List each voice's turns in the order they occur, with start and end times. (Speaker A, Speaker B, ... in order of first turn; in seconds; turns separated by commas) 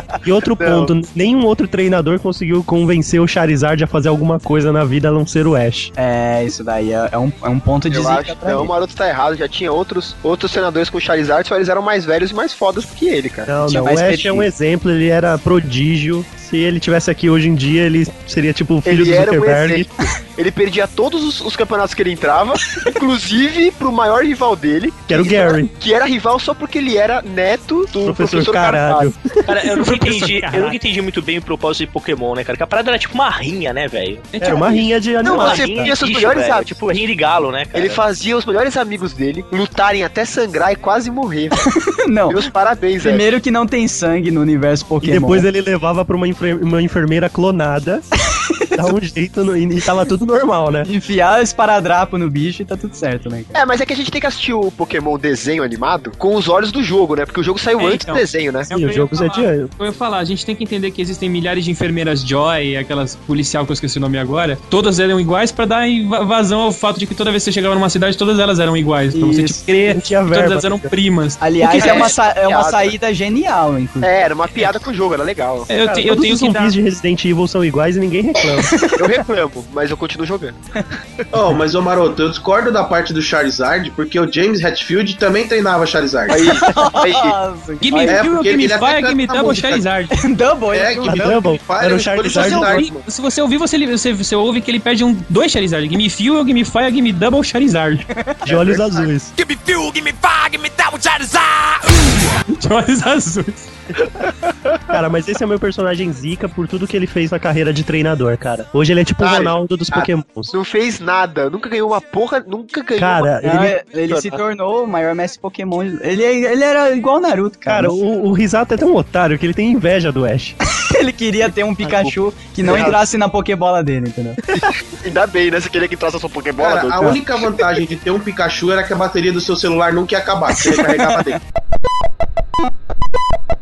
Speaker A: 0.2-5.9, Speaker B: 0.6-0.9, Speaker C: 6.0-8.7, Speaker B: 7.9-13.5, Speaker A: 13.5-19.9, Speaker C: 13.6-14.5, Speaker B: 18.8-29.1, Speaker A: 25.1-25.7, Speaker A: 28.0-29.4, Speaker D: 29.4-34.3, Speaker E: 29.7-30.8, Speaker E: 34.3-34.9, Speaker A: 34.4-35.9, Speaker B: 35.2-36.8, Speaker D: 35.2-38.0, Speaker B: 37.7-41.7, Speaker C: 41.6-42.4, Speaker B: 42.3-43.3, Speaker C: 43.0-45.5, Speaker A: 45.0-48.0, Speaker C: 48.3-48.8, Speaker A: 48.7-50.9, Speaker C: 50.8-53.6, Speaker B: 53.5-58.7, Speaker E: 57.8-72.1, Speaker A: 58.7-59.7, Speaker C: 69.1-69.6, Speaker A: 69.9-70.9, Speaker C: 71.4-74.2, Speaker B: 71.6-72.9, Speaker B: 74.0-75.7, Speaker E: 75.7-76.7, Speaker A: 75.8-78.7, Speaker C: 78.7-79.0, Speaker B: 79.0-80.5, Speaker F: 81.3-86.5, Speaker B: 86.3-87.4, Speaker C: 86.5-88.2, Speaker E: 87.8-90.2, Speaker F: 88.0-89.8, Speaker C: 90.1-91.3, Speaker F: 90.7-93.0, Speaker A: 91.1-92.9, Speaker E: 92.3-98.0, Speaker A: 98.5-99.3, Speaker B: 98.5-99.0, Speaker B: 99.8-100.1, Speaker E: 101.9-103.7, Speaker A: 104.9-110.5, Speaker B: 109.2-113.3, Speaker A: 113.0-113.8, Speaker C: 113.4-118.0, Speaker B: 114.1-114.4, Speaker A: 117.7-120.6, Speaker C: 120.7-124.4, Speaker B: 122.6-123.0, Speaker B: 124.5-127.2, Speaker F: 126.6-131.4